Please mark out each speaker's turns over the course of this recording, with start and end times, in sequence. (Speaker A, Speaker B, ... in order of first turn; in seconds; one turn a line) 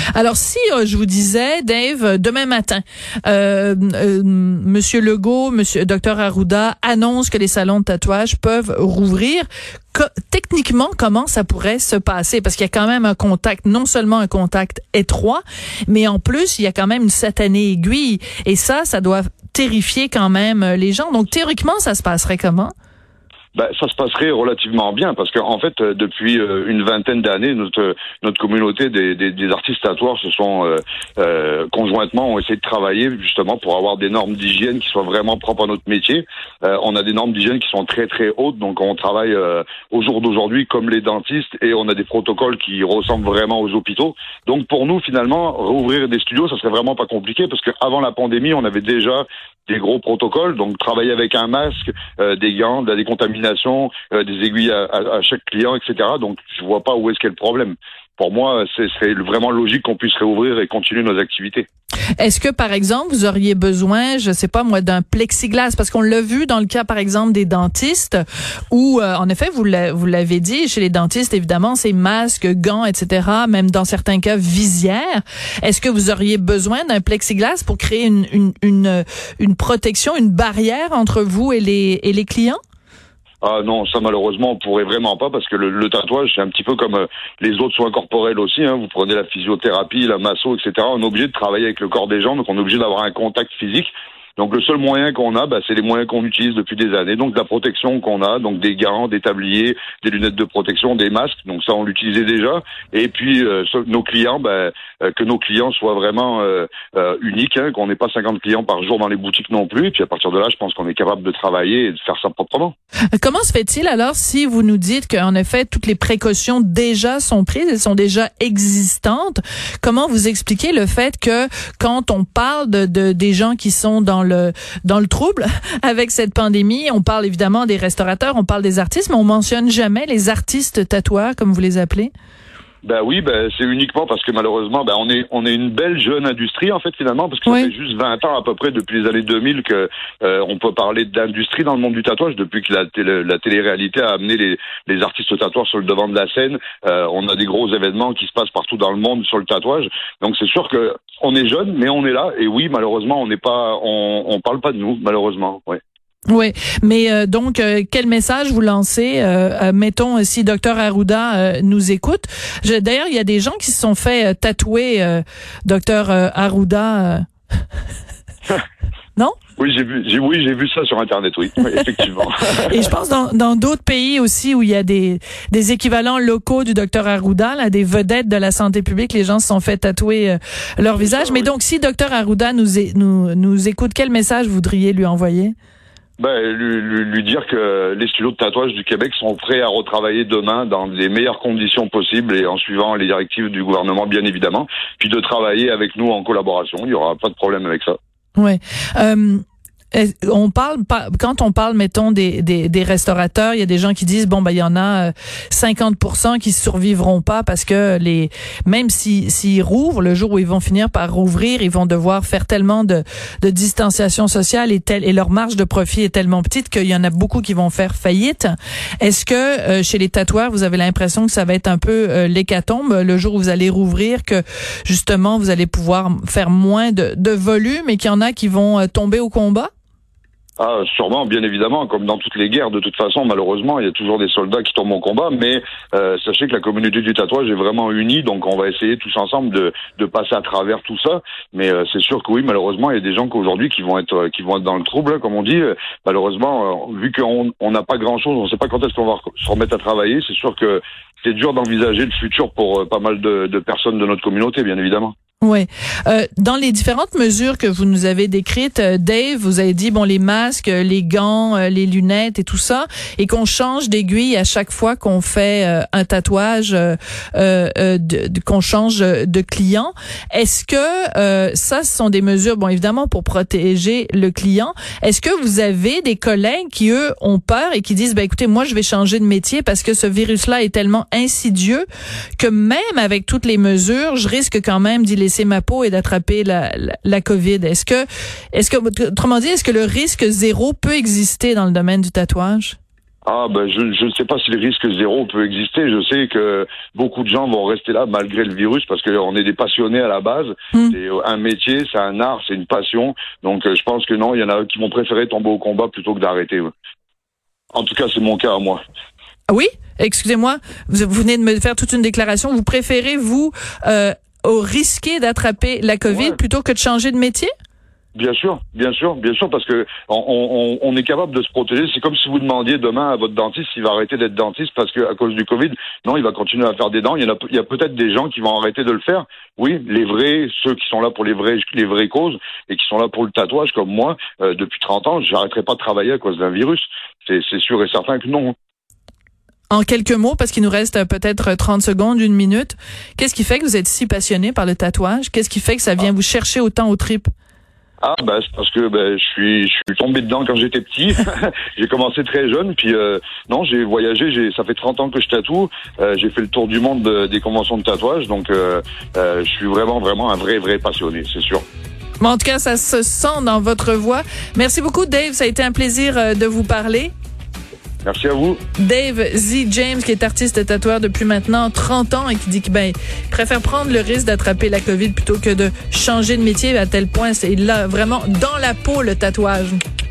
Speaker A: 0.1-22.7
Speaker B: 23.5-61.7
Speaker A: 62.2-68.2
Speaker A: 68.7-82.6
Speaker B: 83.4-112.7
Speaker A: 113.2-132.1
Speaker B: 132.8-155.8
Speaker A: 137.5-137.7
Speaker A: 156.3-167.3
Speaker B: 169.6-172.9
Speaker A: 172.7-185.5
Speaker B: 181.0-181.5
Speaker B: 186.2-198.0
Speaker A: 198.3-229.7
Speaker B: 230.6-255.1
Speaker A: 255.4-281.8
Speaker A: 282.4-292.8
Speaker B: 293.2-306.7
Speaker B: 307.7-308.8
Speaker A: 309.5-317.5
Speaker B: 316.1-316.4
Speaker B: 318.1-338.5
Speaker A: 339.7-347.3
Speaker B: 348.0-361.6
Speaker A: 362.2-367.1
Speaker B: 368.0-368.6
Speaker A: 368.8-379.8